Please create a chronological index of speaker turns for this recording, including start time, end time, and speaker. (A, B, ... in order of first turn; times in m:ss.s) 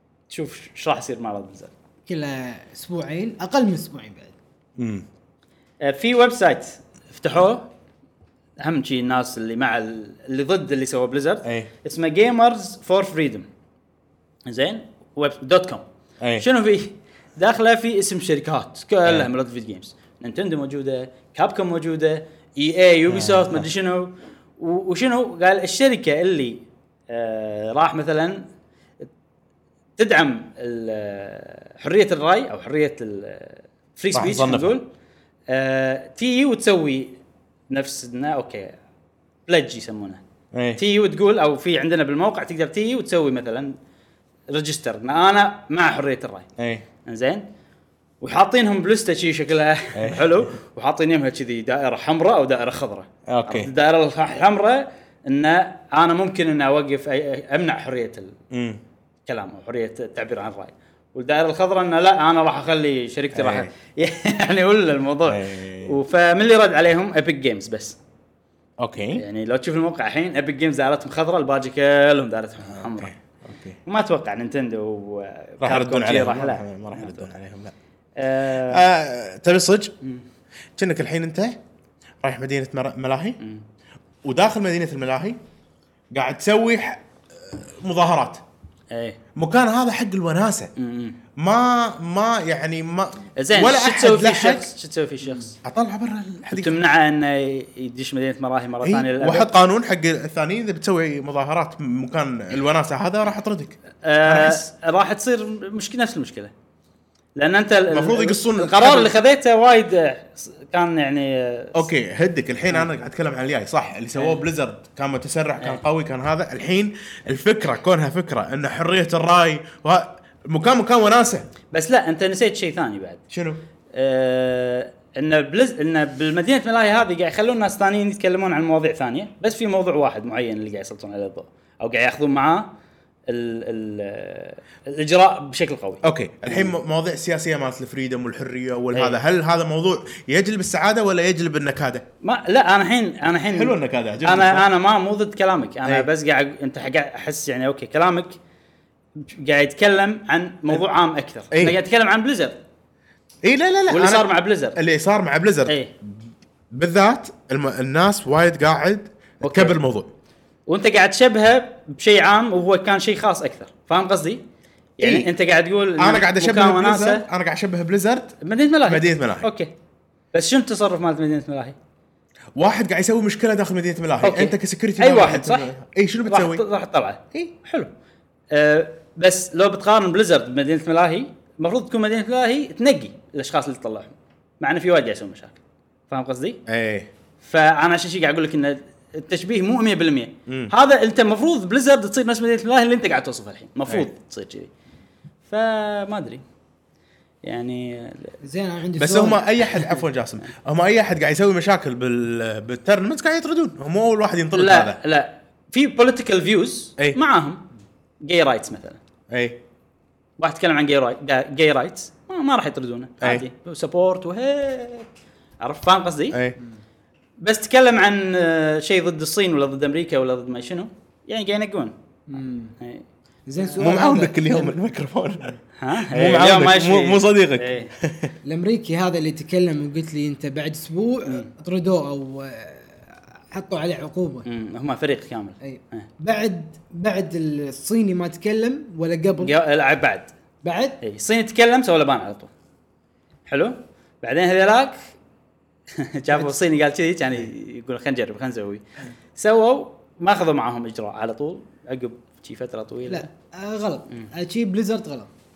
0:00.3-0:01.7 A
0:02.1-0:04.3 B
0:04.8-0:05.1 C
0:05.8-0:07.7 A
0:08.6-0:13.5 A
0:11.4-0:11.7 C
0:14.4-0:15.8 A
0:16.2-0:16.4 C
0:16.4-0:28.4 A
0:23.1-0:23.6 C
0:30.0-0:34.8 A
0:34.1-0:34.8 C
0:35.5-0:37.1 A
0:37.7-0:38.8 A
0:39.5-0:40.2 A
0:40.5-0:40.8 C
0:40.8-0:43.7 A
0:44.5-0:46.4 A
0:46.6-0:46.8 C
0:47.0-0:47.4 A
0:48.2-0:58.3 A
0:49.9-0:50.5 C
0:53.3-0:53.7 C
0:58.5-0:58.8 C
0:59.2-1:08.0 A
1:03.3-1:03.7 C
1:05.2-1:06.0 C
1:08.8-1:09.2 C
1:09.1-1:13.1 A
1:12.7-1:13.8 C
1:13.8-1:17.3 A
1:15.6-1:17.7 C
1:18.2-1:18.8 A
1:18.6-1:19.9 C
1:20.8-1:21.6 C
1:22.2-1:23.4 C
1:24.2-1:25.4 C
1:26.1-1:28.4 C
1:28.9-1:29.2 A
1:29.4-1:30.7 C
1:30.8-1:31.2 A
1:31.4-1:34.7 C
1:33.4-1:35.6 A
1:35.6-1:36.8 C
1:36.5-1:39.5 A
1:38.8-1:44.6 C
1:44.0-1:46.5 A
1:47.4-1:51.9 A
1:47.9-1:49.1 C
1:51.7-2:01.5 C
1:54.1-1:54.4 A
2:01.7-2:03.2 A
2:03.3-2:03.6 C
2:03.9-2:12.7 A
2:13.3-2:16.7 A
2:16.0-2:22.0 C
2:22.2-2:28.4 A
2:23.5-2:24.7 C
2:29.2-2:32.6 A
2:31.5-2:31.8 C
2:33.4-2:40.1 C
2:33.9-2:34.8 A
2:39.4-2:39.8 A
2:40.7-2:44.4 A
2:45.0-2:47.2 A
2:45.0-2:45.3 C
2:46.0-2:49.5 C
2:48.4-2:49.7 A
2:50.3-2:51.8 A
2:52.6-2:56.6 C
2:54.2-2:55.7 A
2:56.2-2:57.9 A
2:58.5-3:06.6 A
3:06.6-3:07.1 C
3:07.4-3:14.7 A
3:10.5-3:10.7 C
3:15.4-3:16.4 A
3:17.4-3:18.4 A
3:18.4-3:19.5 B
3:19.0-3:25.0 C
3:24.5-3:27.6 A
3:28.2-3:29.0 A
3:29.3-3:29.6 C
3:30.4-3:35.1 A
3:35.6-3:36.4 A
3:36.3-3:36.6 C
3:37.4-3:41.9 A
3:42.3-3:42.7 B
3:42.8-3:43.0 A
3:43.5-3:44.7 B
3:43.8-3:48.3 C
3:45.8-3:47.9 A
3:48.4-3:53.0 B
3:53.5-3:54.4 B
3:54.4-3:56.0 A
3:55.6-3:59.5 B
3:59.4-4:00.3 A
4:00.6-4:01.0 B
4:01.0-4:02.5 A
4:03.5-4:05.0 A
4:05.9-4:08.8 A
4:09.3-4:13.3 A
4:13.1-4:15.3 B